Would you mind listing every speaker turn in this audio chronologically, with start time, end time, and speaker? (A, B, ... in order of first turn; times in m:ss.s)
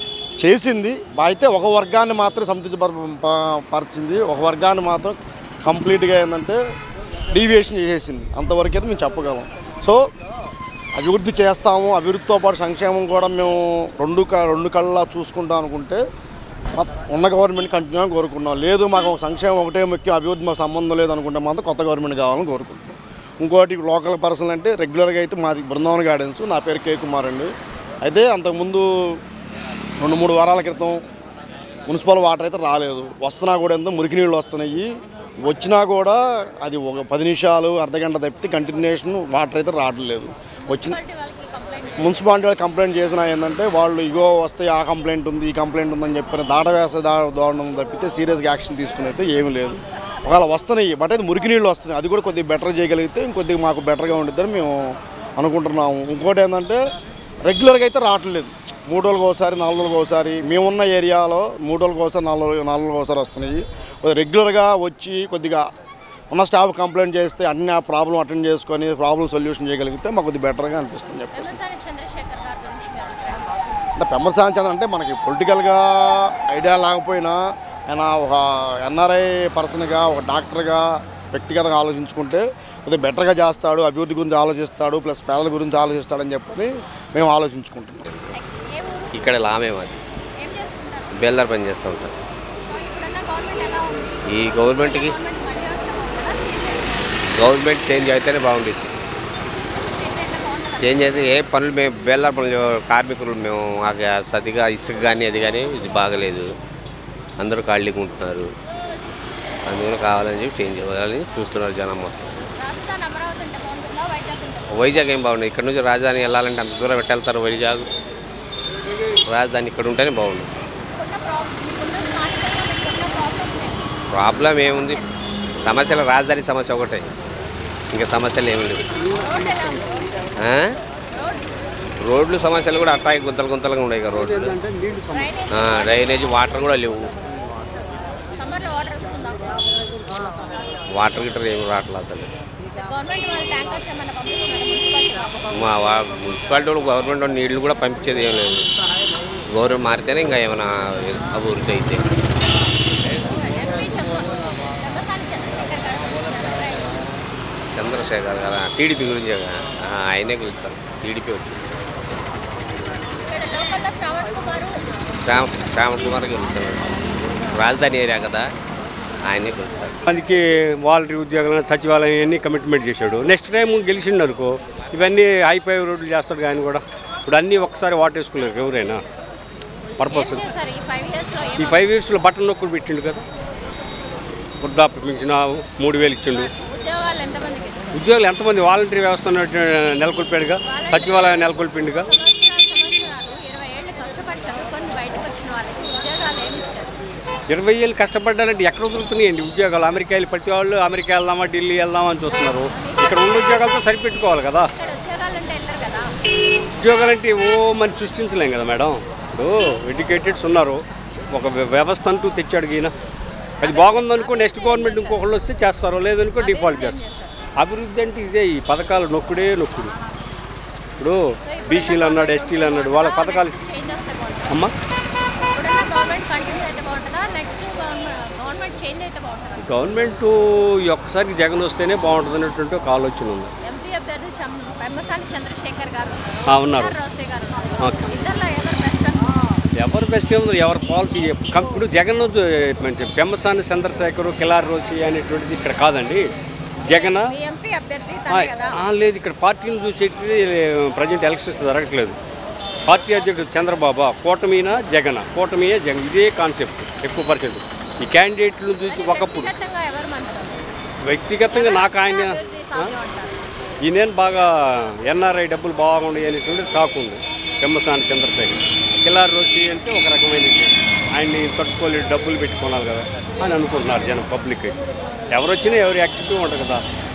0:00.4-0:06.6 A
0:07.3-0:10.0 A
0:11.0-0:16.0 A
0:16.8-0:27.5 A
0:28.0-0:28.9 A
0:30.0-0:31.0 A
0:31.9-0:34.8 A
0:35.5-0:41.0 A
0:40.7-0:42.6 B
0:42.0-0:54.7 A
0:55.4-0:56.8 A
0:57.4-1:05.6 A
1:06.3-1:11.6 A
1:11.3-1:13.6 B
1:14.0-1:28.0 A
1:28.3-1:29.4 B
1:29.1-1:30.0 C
1:30.4-1:31.4 B
1:31.1-1:32.1 C
1:32.7-1:37.2 B
1:34.3-1:35.2 C
1:37.3-1:38.8 C
1:38.1-1:38.5 B
1:39.6-1:41.3 B
1:40.8-1:46.5 C
1:47.4-1:48.5 C
1:49.7-1:52.4 C
1:52.6-1:55.1 B
1:54.7-1:57.9 C
1:59.3-2:00.5 C
2:01.0-2:03.8 B
2:04.1-2:05.0 C
2:04.3-2:05.0 B
2:05.6-2:07.1 C
2:07.9-2:09.8 C
2:09.2-2:10.3 B
2:10.4-2:10.7 C
2:11.1-2:11.4 B
2:12.0-2:14.6 C
2:15.1-2:16.4 B
2:15.5-2:17.1 C
2:18.3-2:20.3 B
2:20.9-2:22.3 C
2:22.8-2:25.5 B
2:25.5-2:28.6 C
2:29.5-2:32.2 C
2:33.2-2:37.0 B
2:37.8-2:41.7 C
2:43.2-2:44.8 B
2:45.2-2:48.5 C
2:49.2-2:50.0 C
2:50.1-2:59.0 D
3:00.0-3:00.5 D
3:00.1-3:02.1 B
3:01.6-3:03.2 D
3:04.6-3:06.5 D
3:06.3-3:07.8 B
3:07.9-3:12.1 D
3:10.7-3:17.0 B
3:17.5-3:24.7 D
3:22.7-3:24.0 B
3:24.8-3:26.1 B
3:26.8-3:32.9 D
3:33.6-3:37.0 D
3:33.6-3:35.4 B
3:36.3-3:37.3 B
3:37.6-3:39.9 D
3:41.0-3:43.6 D
3:41.4-3:44.6 B
3:44.5-3:44.7 D
3:45.5-3:49.6 B
3:49.6-3:53.5 D
3:53.6-3:59.3 B
3:56.4-3:56.9 D
3:57.8-3:58.3 D
3:59.8-4:06.3 D
4:06.8-4:07.4 D
4:06.9-4:08.8 B
4:08.3-4:12.2 D
4:12.8-4:19.5 D
4:18.8-4:20.6 B
4:21.0-4:23.0 D
4:21.4-4:23.4 B
4:23.8-4:34.8 D
4:35.3-4:36.8 D